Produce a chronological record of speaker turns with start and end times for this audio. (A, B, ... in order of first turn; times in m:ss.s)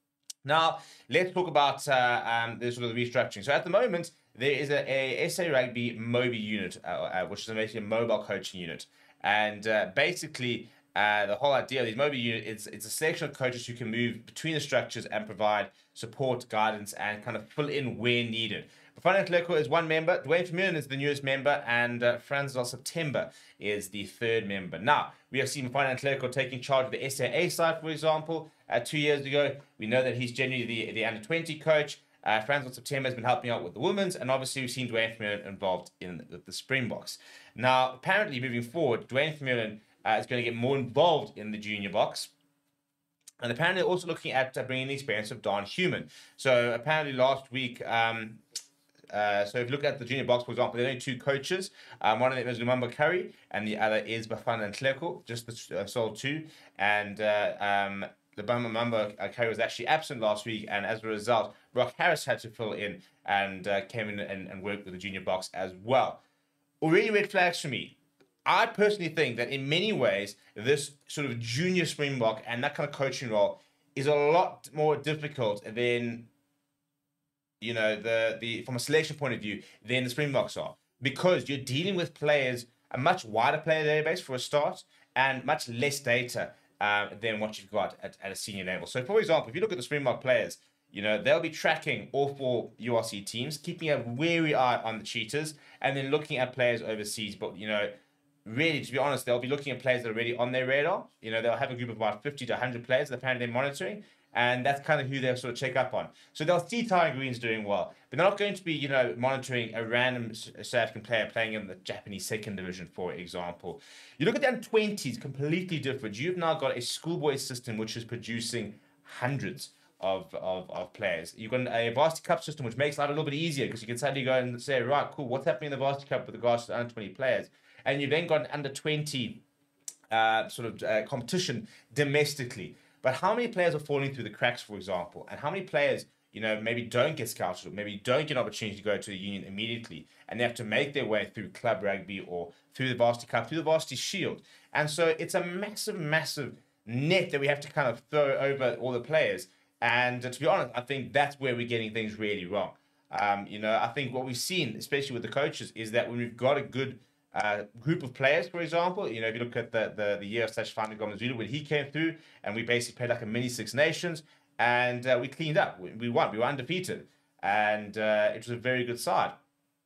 0:00.4-0:42.3 A
0:43.4-0:48.4 A
0:49.1-1:06.2 A
1:06.8-1:16.3 A
1:17.6-1:37.9 A
1:38.4-2:09.4 A
2:10.1-2:49.4 A